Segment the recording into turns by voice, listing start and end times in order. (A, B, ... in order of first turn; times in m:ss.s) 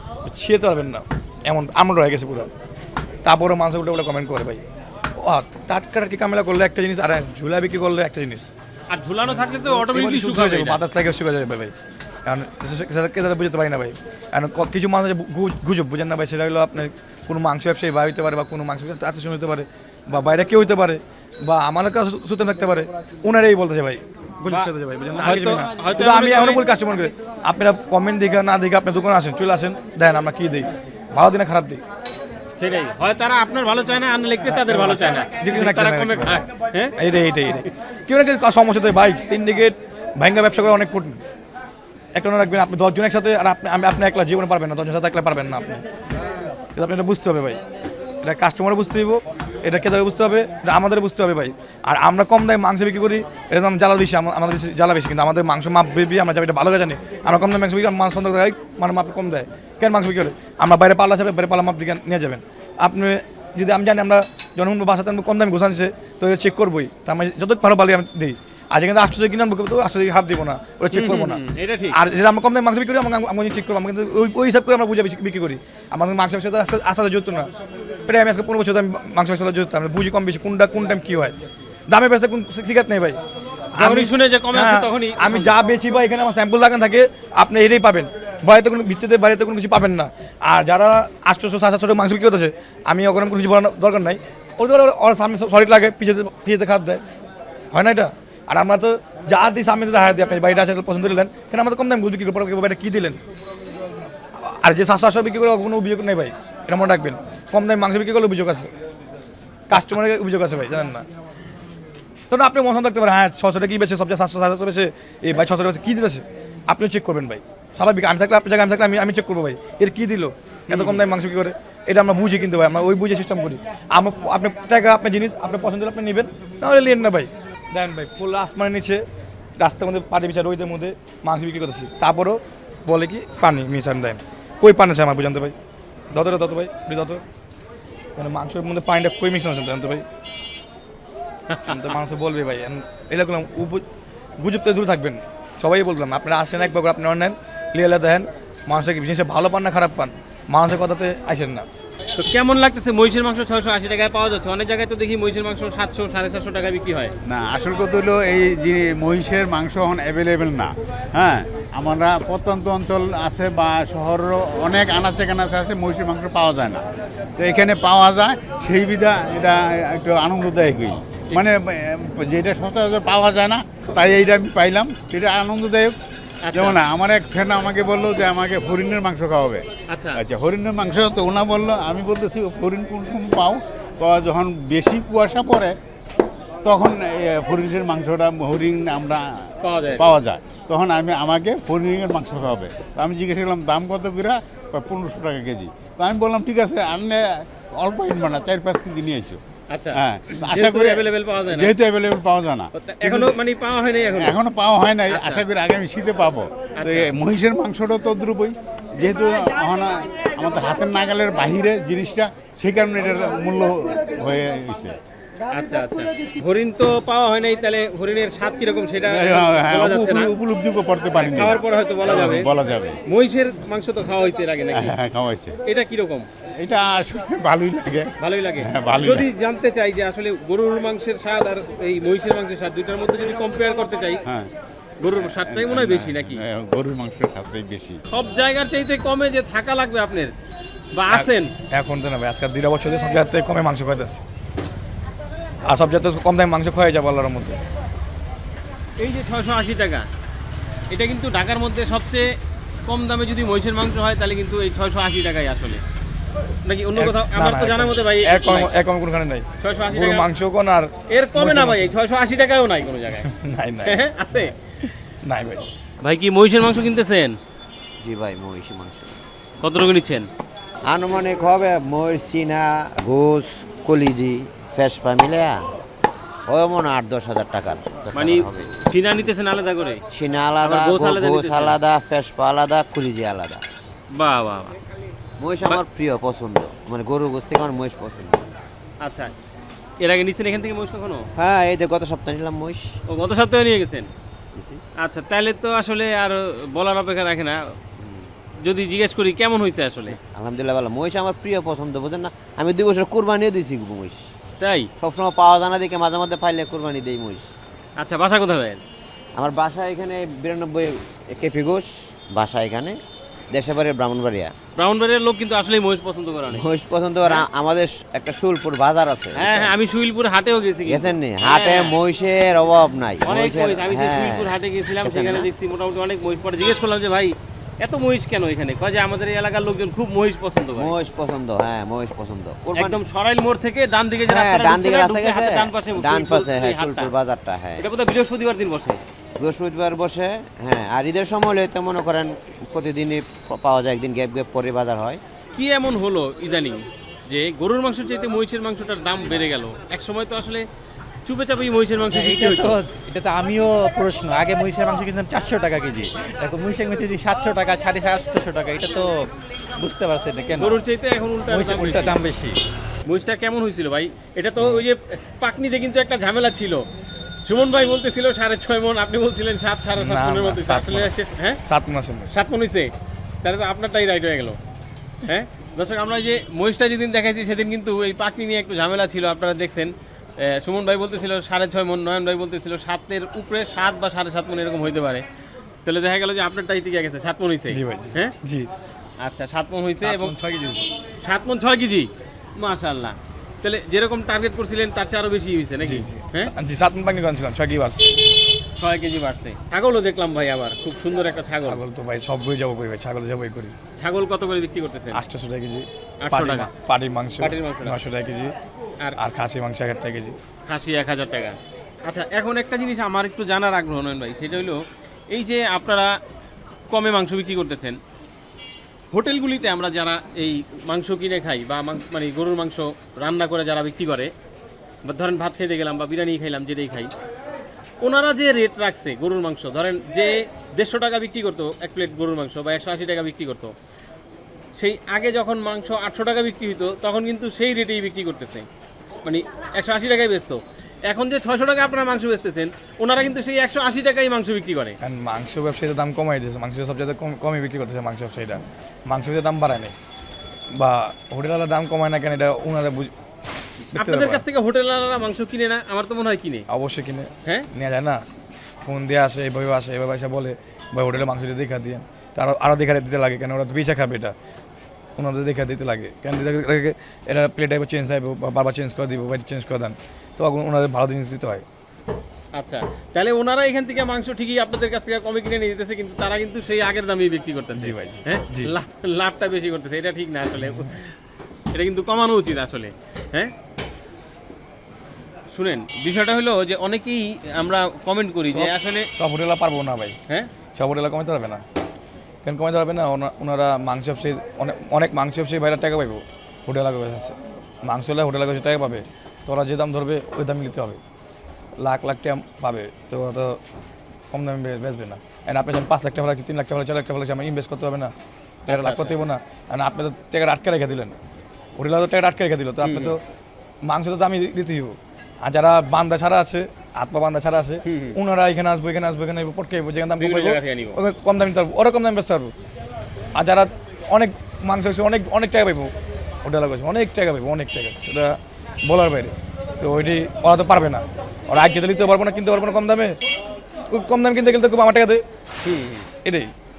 0:00.2-0:02.5 A
0:03.2-0:04.6 A
0:05.2-0:08.5 A
0:08.9-0:10.8 B
0:09.5-0:11.7 A
0:12.2-0:31.8 A
0:24.5-0:26.6 B
0:32.6-0:37.0 B
0:34.4-0:36.4 A
0:37.0-0:41.2 A
0:42.1-0:45.8 A
0:46.7-0:47.6 A
0:48.2-1:17.5 A
1:10.9-1:12.0 B
1:18.0-1:21.3 A
1:21.9-1:23.2 A
1:23.7-1:37.0 A
1:23.8-1:25.5 B
1:37.7-1:43.2 A
1:44.3-1:48.7 A
1:49.7-1:51.0 A
1:52.3-2:09.0 A
2:00.7-2:01.0 B
2:09.6-2:15.5 A
2:16.1-2:17.2 A
2:18.2-2:20.0 A
2:21.5-2:21.8 B
2:21.6-2:23.8 A
2:24.4-2:31.7 A
2:32.1-2:37.1 B
2:37.3-2:46.8 C
2:47.4-2:55.9 C
2:56.4-2:56.8 B
2:56.5-2:59.6 C
2:59.9-3:00.2 B
3:00.2-3:05.7 C
3:06.6-3:09.2 C
3:09.6-3:10.1 B
3:10.0-3:19.4 C
3:19.7-3:21.7 B
3:19.9-3:23.4 C
3:22.7-3:24.4 B
3:24.2-3:35.0 C
3:25.1-3:25.4 B
3:26.8-3:27.1 B
3:35.5-3:40.3 B
3:39.1-3:43.0 C
3:41.2-3:42.5 B
3:43.0-3:44.9 B
3:44.7-3:45.6 C
3:45.6-3:46.2 B
3:46.6-3:48.1 C
3:48.2-3:54.2 B
3:48.6-3:49.3 C
3:54.2-3:54.5 C
3:55.0-3:56.4 B
3:55.3-3:58.0 C
3:58.1-4:00.3 B
4:00.9-4:01.5 B
4:01.1-4:04.2 A
4:05.6-4:07.6 A
4:09.0-4:10.0 B
4:10.9-4:12.3 B
4:12.9-4:15.8 B
4:16.6-4:18.7 B
4:17.0-4:21.9 A
4:19.6-4:20.3 B
4:21.1-4:23.3 B
4:23.2-4:25.6 A
4:23.8-4:24.5 B
4:26.0-4:27.4 B
4:28.0-4:29.1 D
4:29.6-4:30.2 B
4:30.8-4:35.6 D
4:36.5-4:38.7 D
4:38.1-4:40.0 B
4:40.1-4:43.6 D
4:40.6-4:41.8 B
4:44.1-4:44.7 B
4:45.4-4:48.5 D
4:49.0-4:49.3 B
4:50.0-4:51.2 B
4:51.4-4:53.0 D
4:53.1-4:54.1 B
4:54.5-4:54.8 D
4:55.0-4:57.6 B
4:58.6-5:00.2 B
5:00.1-5:04.3 D
5:04.6-5:04.9 B
5:05.0-5:07.5 D
5:08.0-5:08.8 B
5:09.3-5:13.0 D
5:13.5-5:14.5 D
5:14.8-5:16.6 B
5:16.5-5:19.7 D
5:19.4-5:21.9 B
5:20.8-5:25.5 D
5:23.2-5:30.9 B
5:30.8-5:33.0 D
5:32.7-5:37.1 B
5:34.3-5:37.8 D
5:37.8-5:39.0 B
5:39.4-5:45.2 D
5:45.5-5:50.6 B
5:51.2-5:52.8 B
5:52.1-6:00.8 E
6:00.6-6:02.2 B
6:01.5-6:02.6 E
6:03.0-6:06.8 B
6:07.4-6:11.6 B
6:10.0-6:12.4 A
6:12.3-6:12.9 B
6:13.4-6:14.6 B
6:15.2-6:25.2 B
6:25.8-6:28.3 B
6:27.7-6:28.7 A
6:29.2-6:30.3 B
6:30.0-6:30.9 A
6:31.2-6:36.5 B
6:35.8-6:38.1 A
6:38.8-6:41.8 B
6:41.6-6:43.7 A
6:44.0-6:45.2 B
6:45.1-6:48.5 A
6:46.2-6:46.7 B
6:47.4-6:48.0 B
6:49.2-6:50.4 A
6:50.7-6:56.1 B
6:56.9-6:58.0 B
6:59.1-7:04.3 B
7:05.0-7:07.1 B
7:08.0-7:13.7 B
7:14.8-7:18.6 B
7:19.2-7:25.0 B
7:25.0-7:29.9 A
7:30.7-7:33.1 A
7:33.9-7:34.4 A
7:34.0-7:36.6 B
7:36.7-7:38.2 A
7:38.8-7:44.3 A
7:45.2-7:51.6 A
7:52.6-8:01.1 B
7:57.8-7:58.7 A
8:01.7-8:03.5 B
8:05.5-8:09.1 B
8:08.5-8:10.2 A
8:10.7-8:11.6 A
8:12.4-8:21.0 A
8:21.8-8:23.6 A
8:24.3-8:28.1 A
8:28.7-8:29.2 B
8:28.7-8:31.2 A
8:31.8-8:33.2 A
8:32.8-8:33.1 B
8:33.8-8:42.5 A
8:37.8-8:38.2 B
8:40.2-8:41.0 B
8:43.3-8:45.9 A
8:46.4-8:53.2 A
8:53.9-8:55.2 A
8:55.6-8:56.0 B
8:56.2-8:56.5 A